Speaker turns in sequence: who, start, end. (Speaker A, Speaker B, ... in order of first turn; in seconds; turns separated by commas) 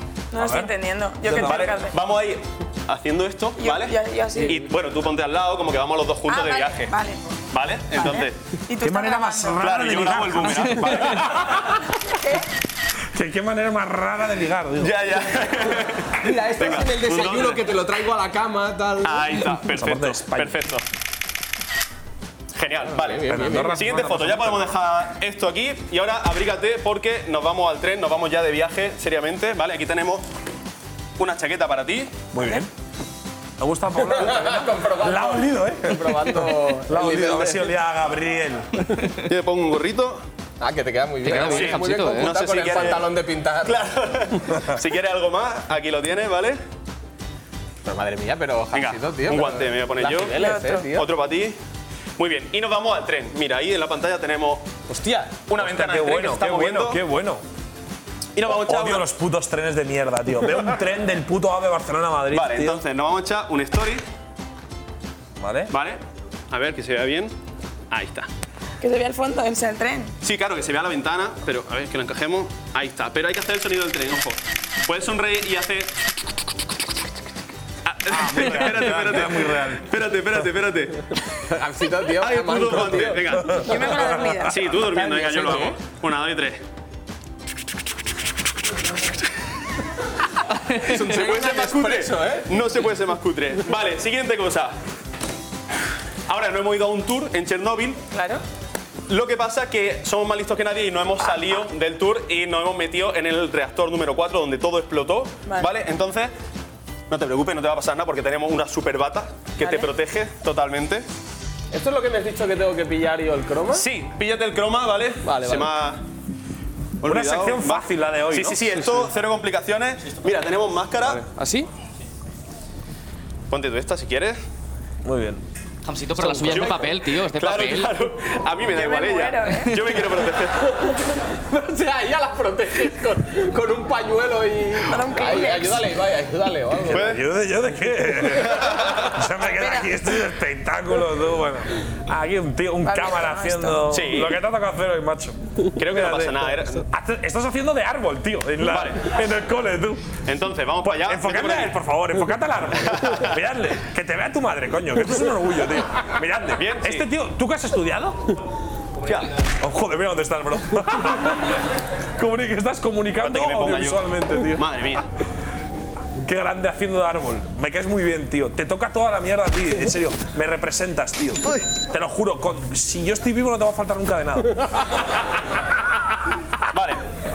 Speaker A: 0.3-2.0, Speaker B: 0.3-0.7, Speaker B: 1.2-1.8, Speaker C: 1.4-6.9, Speaker A: 3.6-4.6, Speaker A: 6.3-7.2, Speaker C: 7.5-8.4, Speaker A: 8.0-9.7, Speaker B: 8.8-11.8, Speaker C: 9.6-11.3, Speaker A: 12.2-12.4, Speaker B: 13.1-15.1, Speaker C: 14.8-17.6, Speaker D: 16.2-19.4, Speaker C: 19.0-20.8, Speaker B: 19.7-20.6, Speaker C: 22.5-30.3, Speaker D: 22.9-23.9, Speaker B: 23.3-24.7, Speaker C: 31.2-32.2, Speaker B: 32.3-32.7, Speaker B: 33.6-38.9, Speaker D: 34.0-37.7, Speaker C: 39.2-40.2, Speaker D: 40.6-43.9, Speaker E: 41.2-42.3, Speaker C: 41.3-43.1, Speaker C: 43.6-46.6, Speaker D: 47.9-51.1, Speaker C: 48.7-51.6, Speaker A: 50.4-50.9, Speaker C: 52.2-54.7, Speaker D: 54.9-55.4, Speaker C: 55.5-57.0, Speaker B: 55.6-57.4, Speaker C: 58.4-59.0, Speaker B: 58.4-62.8, Speaker C: 62.3-64.0, Speaker B: 65.4-65.7, Speaker C: 65.7-66.0, Speaker C: 66.5-67.3, Speaker C: 67.9-68.3, Speaker A: 68.8-70.2, Speaker C: 70.2-75.9, Speaker C: 77.9-81.0, Speaker B: 78.1-79.9, Speaker D: 81.5-83.5, Speaker C: 82.2-83.6, Speaker B: 83.4-84.5, Speaker A: 83.6-84.6, Speaker C: 84.5-86.6, Speaker D: 84.7-85.8, Speaker D: 90.8-92.5, Speaker C: 90.8-94.7, Speaker C: 96.3-98.0, Speaker A: 98.1-98.4, Speaker C: 99.1-106.3, Speaker C: 107.1-111.0, Speaker A: 109.6-109.9, Speaker D: 111.7-113.9, Speaker C: 113.7-116.0, Speaker D: 115.2-115.7, Speaker C: 117.0-121.2, Speaker B: 117.0-118.9, Speaker D: 121.0-121.7, Speaker C: 123.5-124.4, Speaker B: 125.0-125.4, Speaker E: 125.8-128.0, Speaker D: 126.2-126.7, Speaker C: 126.5-130.7, Speaker A: 128.7-129.9, Speaker D: 131.3-137.1, Speaker A: 134.9-135.8, Speaker C: 136.9-137.2, Speaker B: 136.9-150.2, Speaker A: 139.5-139.9, Speaker A: 142.8-143.9, Speaker C: 143.9-144.4, Speaker C: 145.8-146.8, Speaker C: 148.7-149.1, Speaker C: 150.2-151.8, Speaker B: 150.8-158.4, Speaker C: 152.9-153.3, Speaker C: 156.6-157.1, Speaker C: 159.0-159.3, Speaker B: 159.6-161.6, Speaker B: 162.2-164.7, Speaker C: 163.2-165.1, Speaker B: 166.2-174.8, Speaker C: 176.7-177.0